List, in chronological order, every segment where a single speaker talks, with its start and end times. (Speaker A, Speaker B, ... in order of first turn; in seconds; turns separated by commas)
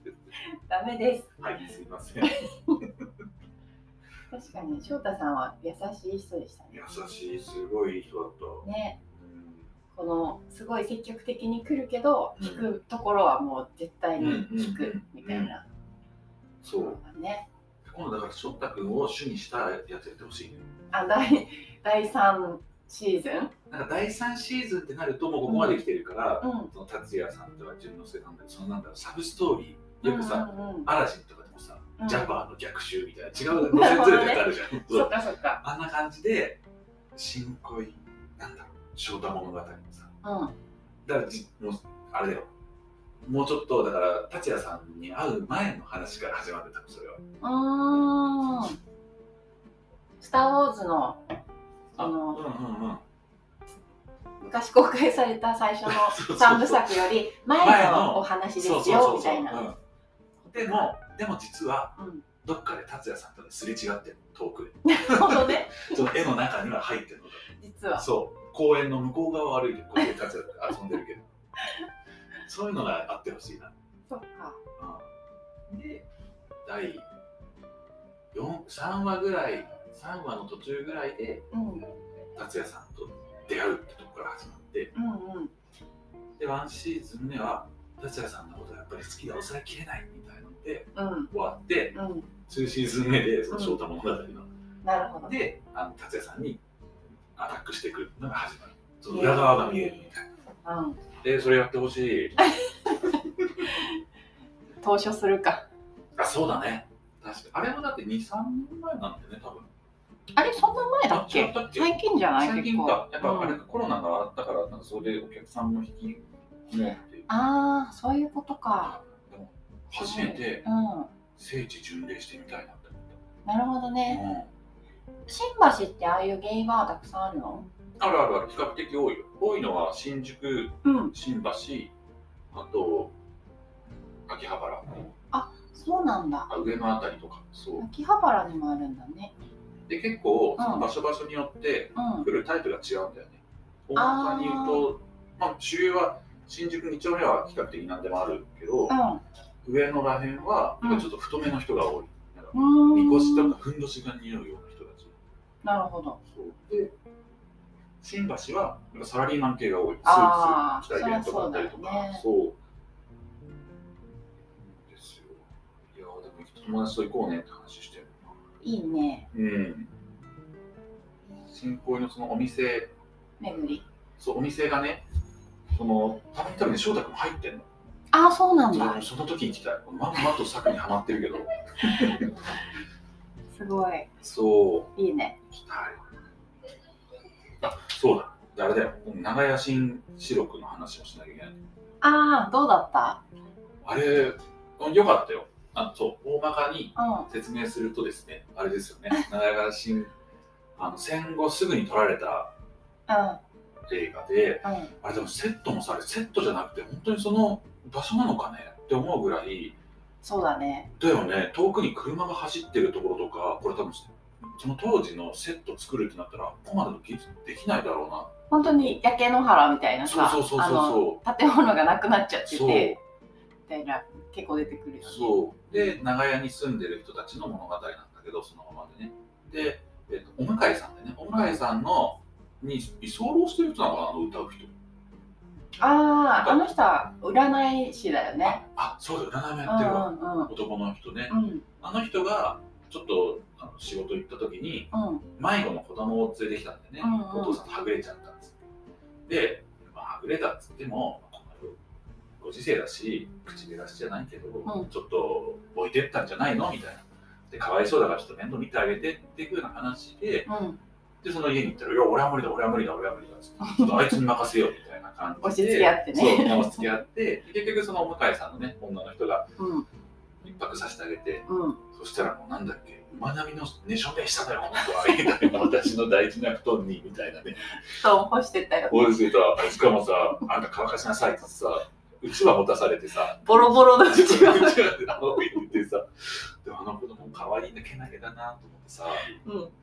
Speaker A: 0.7-1.4, Speaker B: 1.4-2.9, Speaker A: 2.2-2.8, Speaker A: 4.3-6.8, Speaker B: 6.7-9.7, Speaker A: 8.6-9.0, Speaker A: 9.9-15.6, Speaker B: 12.4-12.7, Speaker B: 14.2-15.6, Speaker B: 16.6-17.0, Speaker A: 16.8-17.5, Speaker B: 17.8-20.7, Speaker A: 20.9-23.6, Speaker B: 23.7-36.6, Speaker A: 25.5-25.8, Speaker A: 26.4-26.7, Speaker A: 30.0-30.9, Speaker A: 32.0-32.3, Speaker A: 33.5-35.6, Speaker B: 37.1-40.1, Speaker A: 40.2-40.5, Speaker B: 41.0-42.5, Speaker B: 43.2-47.2, Speaker A: 47.4-48.8, Speaker A: 50.2-51.2, Speaker B: 51.9-53.0, Speaker A: 52.0-52.4, Speaker A: 54.4-59.7, Speaker B: 55.9-59.8, Speaker A: 60.4-60.9, Speaker B: 60.5-71.2, Speaker A: 62.0-62.2, Speaker A: 64.8-66.0, Speaker A: 67.6-68.1, Speaker B: 72.4-73.7, Speaker A: 74.1-74.6, Speaker B: 74.8-75.1, Speaker B: 75.7-76.0, Speaker B: 76.6-77.1, Speaker B: 78.3-81.5, Speaker A: 81.5-81.9, Speaker B: 82.3-84.9, Speaker A: 84.9-85.5, Speaker B: 86.4-94.5, Speaker A: 90.9-91.3, Speaker A: 91.9-92.3, Speaker A: 93.5-93.8, Speaker A: 94.8-95.4, Speaker B: 95.2-96.6, Speaker B: 97.3-100.2, Speaker A: 99.1-100.1, Speaker A: 100.6-101.0, Speaker B: 101.2-102.4, Speaker A: 102.5-102.9, Speaker A: 103.6-104.0, Speaker A: 104.8-105.7, Speaker B: 106.2-109.7, Speaker A: 110.3-113.6, Speaker B: 111.1-117.3, Speaker A: 117.3-119.0, Speaker B: 118.8-120.6, Speaker A: 120.0-121.1, Speaker B: 121.3-123.2, Speaker A: 123.4-124.2, Speaker B: 124.1-124.5, Speaker A: 125.3-127.7, Speaker B: 128.0-131.9, Speaker A: 130.8-131.1, Speaker B: 132.5-133.1, Speaker B: 134.3-135.0, Speaker A: 135.3-136.5, Speaker B: 136.5-137.8, Speaker A: 137.8-139.3, Speaker B: 139.9-148.9, Speaker A: 140.6-140.9, Speaker A: 141.9-142.3, Speaker A: 143.9-144.8, Speaker A: 148.9-149.2, Speaker B: 149.6-155.1, Speaker A: 150.8-151.1, Speaker A: 152.5-153.6, Speaker A: 155.6-156.2, Speaker B: 156.3-156.9, Speaker B: 158.0-162.6, Speaker A: 160.0-162.2, Speaker B: 164.6-168.1, Speaker A: 168.6-169.3, Speaker B: 169.3-169.9, Speaker B: 171.5-172.9, Speaker A: 173.4-173.8, Speaker B: 174.2-175.0, Speaker B: 175.7-177.7, Speaker A: 178.1-179.1, Speaker B: 178.7-182.3, Speaker A: 183.5-184.1, Speaker B: 184.2-184.9, Speaker A: 184.9-185.4, Speaker B: 185.5-186.0, Speaker B: 187.6-191.6, Speaker A: 192.0-193.2, Speaker B: 193.8-200.1, Speaker A: 196.9-197.3, Speaker B: 200.8-202.5, Speaker A: 203.1-203.4, Speaker B: 203.9-209.8, Speaker A: 204.6-204.9, Speaker A: 210.2-210.9, Speaker B: 211.0-218.9, Speaker A: 218.5-223.0, Speaker B: 220.0-221.2, Speaker B: 222.5-223.0, Speaker A: 223.7-226.0, Speaker B: 225.0-234.7, Speaker A: 235.8-238.6, Speaker B: 236.3-236.7, Speaker B: 238.4-248.6, Speaker A: 239.6-240.5, Speaker A: 241.3-241.6, Speaker A: 244.9-245.2, Speaker A: 247.0-247.6, Speaker B: 249.3-251.8, Speaker B: 252.4-260.5, Speaker A: 254.7-254.9, Speaker A: 260.4-260.8, Speaker B: 261.2-269.6, Speaker A: 263.6-264.2, Speaker A: 265.4-266.9, Speaker A: 269.6-269.9, Speaker B: 270.4-277.7, Speaker A: 271.5-271.8, Speaker A: 275.2-275.5, Speaker A: 277.8-279.3, Speaker B: 278.9-289.3, Speaker A: 283.4-285.2, Speaker A: 289.3-289.7